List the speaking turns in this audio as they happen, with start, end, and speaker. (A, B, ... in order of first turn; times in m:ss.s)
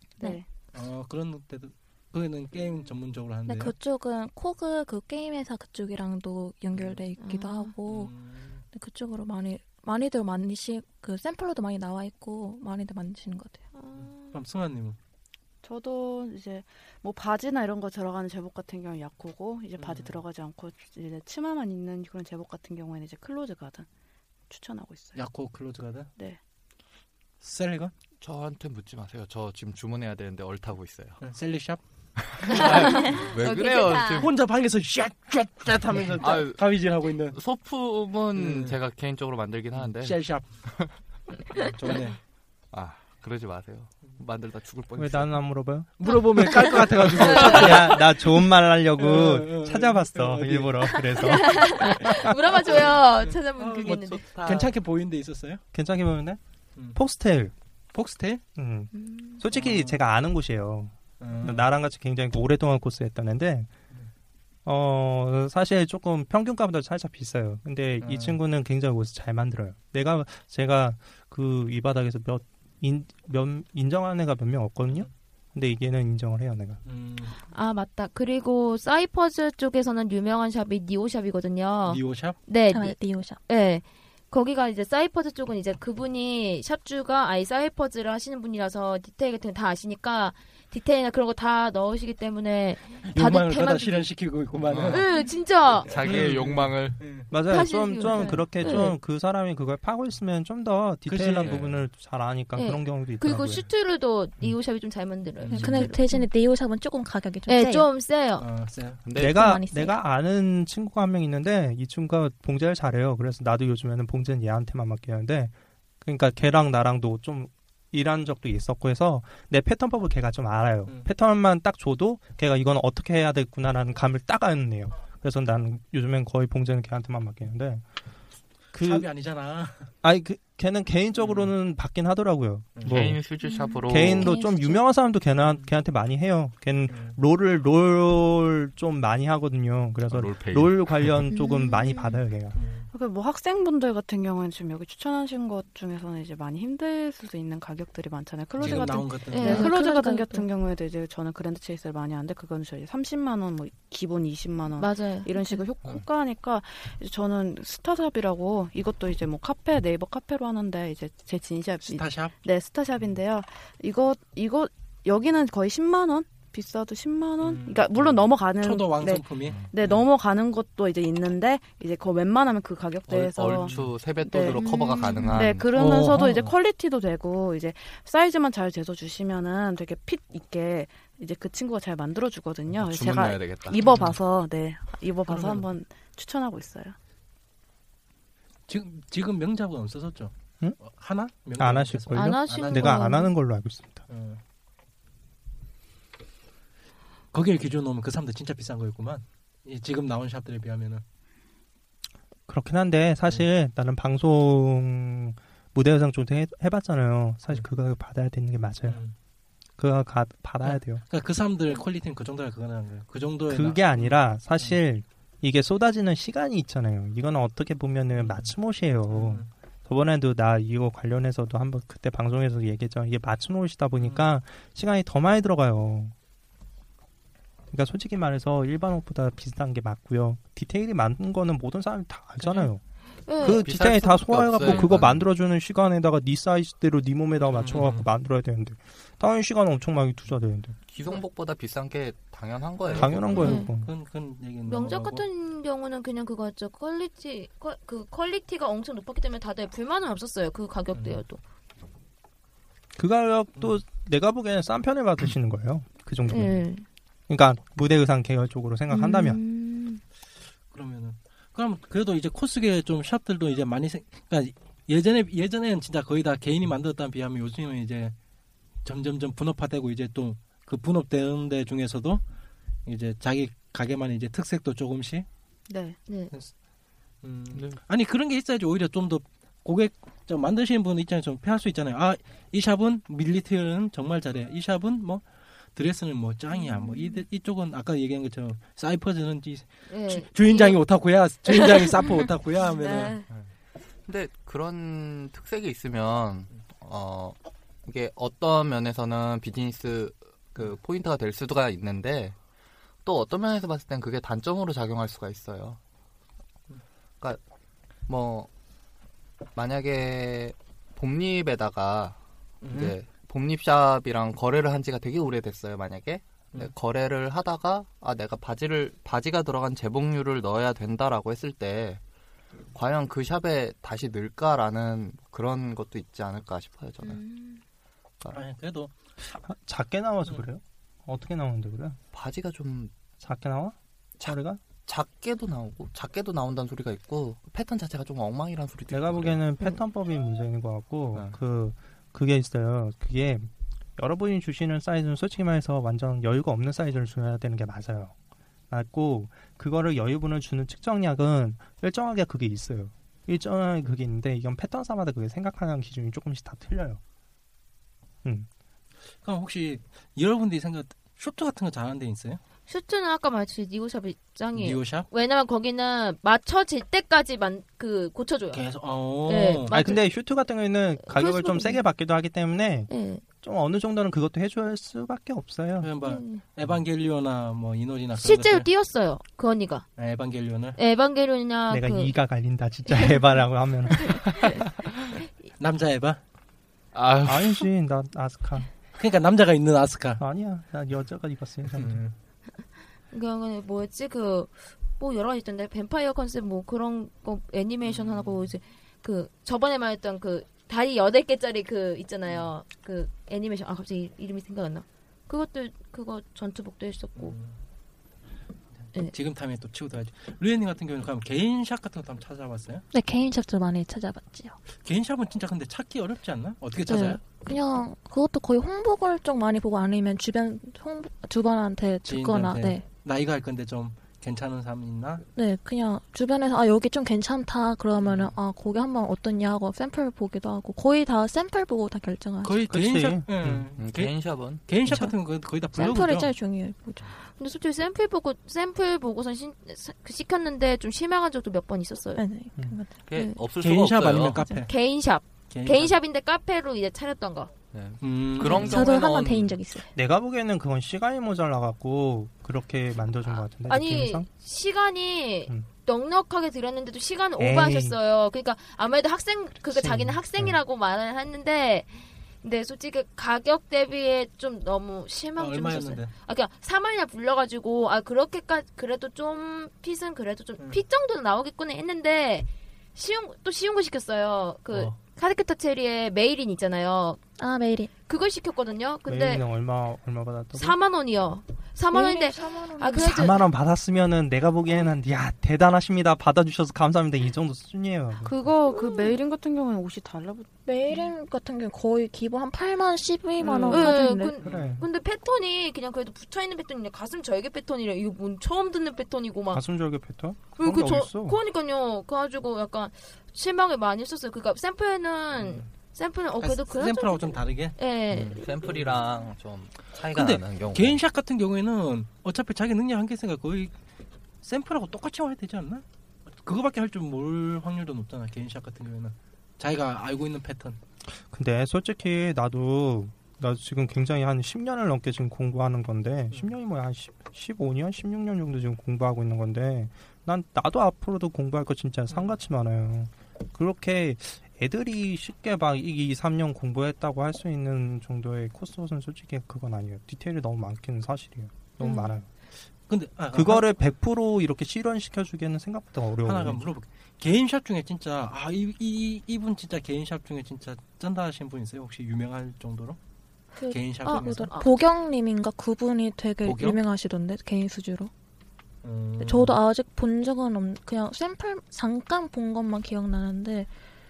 0:00.2-0:00.5 A
0:00.7-0:03.7 B
0:03.5-0:08.1 C
0:07.2-0:07.7 D
0:07.9-0:08.6 B
0:08.7-0:13.6 C
0:13.7-0:14.4 D
0:14.0-0:15.0 B
0:15.6-0:23.9 A
0:19.8-0:20.2 B
0:24.5-0:25.2 A
0:25.1-0:26.1 B
0:27.4-0:27.9 B
0:28.2-0:31.2 E
0:31.2-0:31.8 B
0:32.3-0:34.3 E
0:32.5-0:34.2 D
0:32.6-0:33.3 B
0:34.1-0:37.4 B
0:36.2-0:40.9 E
0:38.3-0:38.8 B
0:39.7-0:40.6 B
0:41.5-0:42.2 B
0:42.7-0:45.4 E
0:45.0-0:52.2 F
0:46.0-0:48.3 B
0:47.3-0:47.7 D
0:49.0-0:51.0 B
0:51.2-0:54.2 D
0:52.0-0:55.6 B
0:53.8-0:54.7 E
0:55.7-0:56.4 F
0:56.9-0:57.5 F
0:57.9-0:58.4 B
0:58.6-1:03.7 F
0:58.9-0:59.4 D
0:59.5-1:00.0 B
1:01.2-1:01.7 B
1:04.6-1:16.8 F
1:08.0-1:08.4 B
1:16.8-1:17.4 B
1:17.4-1:34.1 D
1:21.8-1:22.4 B
1:22.7-1:23.4 C
1:33.0-1:35.3 B
1:34.7-1:35.0 E
1:34.9-1:36.0 D
1:35.8-1:37.0 E
1:35.9-1:37.3 B
1:37.3-1:43.6 F
1:37.4-1:38.9 D
1:41.0-1:41.7 B
1:41.4-1:41.8 E
1:42.5-1:46.2 D
1:45.4-1:46.0 B
1:45.5-1:47.9 C
1:47.5-1:48.4 D
1:48.4-1:49.0 B
1:49.0-1:49.4 E
1:49.1-1:50.0 C
1:49.1-2:07.8 F
2:00.8-2:01.1 B
2:08.7-2:09.1 F
2:08.7-2:09.9 B
2:10.0-2:13.2 F
2:11.2-2:11.5 B
2:12.7-2:13.1 B
2:12.8-2:14.4 E
2:13.4-2:14.8 C
2:13.9-2:22.6 F
2:15.4-2:15.7 B
2:16.9-2:17.2 B
2:20.1-2:21.2 E
2:21.3-2:22.2 C
2:22.5-2:22.9 B
2:22.9-3:07.0 A
2:28.6-2:29.7 B
2:29.3-2:29.7 D
2:29.4-2:30.5 C
2:34.8-2:35.6 D
2:41.8-2:42.3 B
2:47.4-2:50.0 B
2:53.1-2:55.7 E
2:53.7-2:53.9 B
2:54.6-2:55.1 C
2:55.7-2:56.5 B
3:02.7-3:03.9 E
3:03.8-3:04.2 B
3:05.3-3:05.7 B
3:08.7-3:13.0 B
3:10.6-3:10.9 F
3:11.6-3:14.0 F
3:12.1-3:13.3 D
3:14.1-3:14.4 B
3:17.3-3:21.0 B
3:22.5-3:29.0 F
3:28.8-3:29.1 B
3:29.8-3:31.0 F
3:30.6-3:34.8 B
3:33.5-3:46.1 F
3:38.2-3:38.5 B
3:39.1-3:39.5 B
3:44.0-3:44.3 B
3:47.7-3:52.8 F
3:52.4-3:52.7 B
3:53.2-3:53.6 D
3:53.4-4:00.8 F
3:53.6-3:55.3 E
3:54.6-3:54.9 B
3:57.4-3:58.1 B
4:00.9-4:03.6 E
4:02.9-4:05.2 B
4:02.9-4:03.9 F
4:03.4-4:03.7 D
4:04.7-4:11.4 D
4:10.9-4:11.2 B
4:13.0-4:16.6 F
4:16.3-4:16.8 D
4:17.3-4:19.4 F
4:18.9-4:20.0 D
4:20.7-4:28.1 B
4:28.8-4:32.2 B
4:32.8-4:35.3 B
4:35.7-4:36.0 A
4:36.1-4:36.3 D
4:37.2-4:53.2 B
4:37.5-4:37.8 E
4:46.9-4:47.1 D
4:49.9-4:50.8 D
4:51.4-4:52.2 D
4:52.8-4:53.1 A
4:52.8-4:53.2 D
4:54.0-5:02.4 E
5:03.0-5:05.8 E
5:08.1-5:08.5 E
5:09.5-5:12.2 E
5:12.6-5:13.0 B
5:12.7-5:22.0 E
5:22.7-5:27.2 E
5:28.3-5:28.9 B
5:29.4-5:32.0 F
5:32.1-5:32.9 E
5:33.2-5:34.6 F
5:34.2-5:39.4 E
5:38.9-5:48.1 F
5:48.7-5:57.0 F
5:59.2-6:02.4 B
6:02.7-6:08.6 D
6:04.5-6:05.1 B
6:08.5-6:09.8 B
6:09.2-6:10.0 D
6:09.7-6:15.9 F
6:11.1-6:11.8 D
6:12.9-6:13.2 D
6:15.8-6:18.7 B
6:16.0-6:16.4 D
6:18.2-6:19.8 D
6:20.0-6:20.8 B
6:20.8-6:22.1 D
6:21.7-6:24.3 F
6:22.9-6:23.2 D
6:24.1-6:24.6 D
6:25.6-6:26.2 B
6:26.9-6:27.7 E
6:27.2-6:28.7 F
6:28.9-6:30.2 B
6:30.2-6:32.0 F
6:31.6-6:32.1 B
6:33.1-6:47.3 D
6:37.8-6:38.5 B
6:42.2-6:42.5 B
6:47.2-6:47.6 B
6:48.8-6:52.8 B
6:52.9-6:54.6 C
6:54.7-6:57.2 B
6:56.8-7:02.8 C
7:02.0-7:05.2 B
7:05.3-7:12.6 C
7:08.0-7:08.3 B
7:12.4-7:16.3 B
7:12.7-7:13.7 F
7:13.8-7:15.0 E
7:14.9-7:15.2 C
7:15.7-7:17.1 C
7:17.4-7:22.2 D
7:22.2-7:22.9 C
7:23.0-7:24.4 E
7:23.1-7:23.4 D
7:23.6-7:24.7 B
7:24.6-7:27.5 D
7:25.5-7:25.9 B
7:27.7-7:29.6 E
7:28.0-7:28.8 B
7:28.4-7:29.9 C
7:29.9-7:34.3 F
7:33.7-7:57.2 D
7:37.4-7:38.0 F
7:39.6-7:40.6 F
7:45.4-7:46.1 B
7:54.7-7:55.0 B
7:57.4-7:57.9 C
7:58.1-7:59.4 D
7:59.1-8:00.8 F
8:00.5-8:03.4 D
8:01.9-8:03.3 C
8:03.0-8:08.4 F
8:08.2-8:10.5 A
8:10.6-8:14.3 C
8:13.4-8:13.9 A
8:13.7-8:19.6 D
8:14.4-8:14.8 B
8:14.4-8:14.8 F
8:19.5-8:21.4 F
8:20.6-8:28.5 D
8:25.3-8:25.7 B
8:26.4-8:27.8 B
8:28.1-8:31.0 E
8:28.6-8:29.0 B
8:30.1-8:33.8 B
8:34.4-8:35.8 B
8:36.3-8:40.8 B
8:41.3-9:02.3 F
9:01.8-9:02.1 C
9:02.9-9:03.7 B
9:03.3-9:06.6 F
9:06.2-9:13.0 B
9:13.6-9:18.1 C
9:13.7-9:14.5 B
9:14.0-9:14.7 D
9:16.4-9:16.8 B
9:18.8-9:19.6 B
9:19.2-9:23.7 C